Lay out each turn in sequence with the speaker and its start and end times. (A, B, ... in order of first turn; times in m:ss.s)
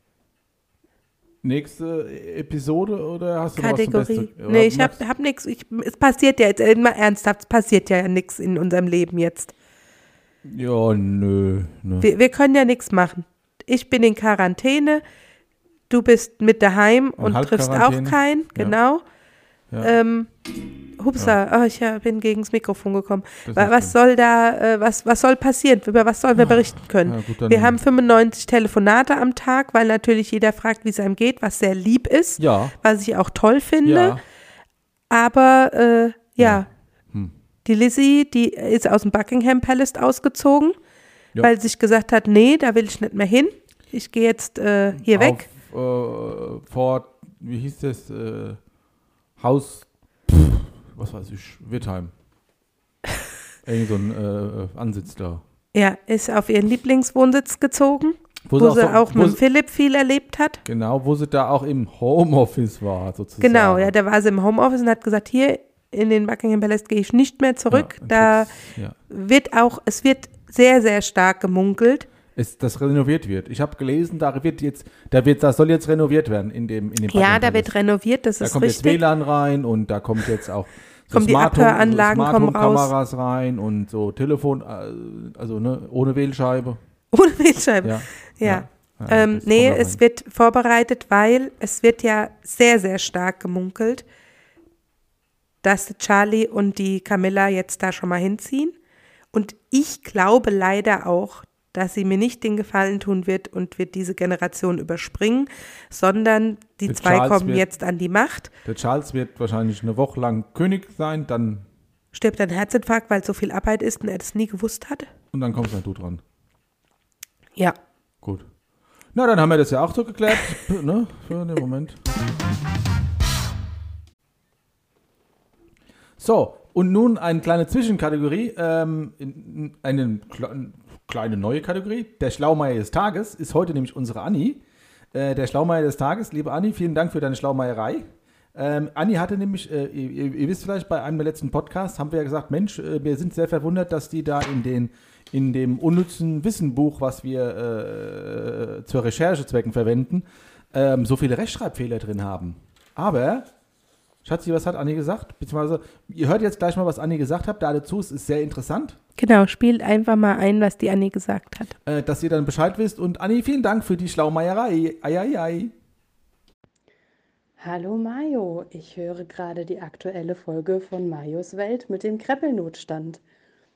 0:01.4-0:05.0 A
0:03.6-0:09.5 B
0:10.4-0:12.1 A
0:12.0-0:15.0 B
0:15.9-0:19.0 B
0:17.2-0:18.8 A
0:19.8-0:20.3 B
0:21.0-0:34.2 B
0:23.4-0:23.9 A
0:26.4-0:27.8 A
0:32.4-0:32.7 A
0:33.8-0:34.2 A
0:35.1-0:36.7 B
0:36.4-0:37.3 A
0:37.6-0:40.8 B
0:41.4-0:45.4 B
0:45.0-0:48.6 A
0:49.4-0:52.1 A
0:53.6-0:55.4 A
0:55.7-1:00.6 B
0:58.4-0:59.4 A
1:00.6-1:03.9 A
1:03.4-1:08.6 B
1:07.7-1:09.0 A
1:09.1-1:12.1 B
1:12.4-1:17.7 A
1:17.1-1:19.0 B
1:18.4-1:26.8 A
1:21.1-1:22.9 B
1:27.1-1:34.0 B
1:27.8-1:30.0 A
1:35.6-1:38.8 B
1:39.3-1:48.5 B
1:46.9-1:47.6 A
1:48.6-1:51.6 A
1:52.1-1:55.1 B
1:55.3-1:56.2 A
1:58.2-1:58.5 A
1:59.1-2:02.0 A
2:06.2-2:14.6 A
2:15.1-2:33.5 A
2:34.2-2:39.0 A
2:39.2-2:41.7 B
2:41.9-2:45.7 A
2:47.6-2:53.2 C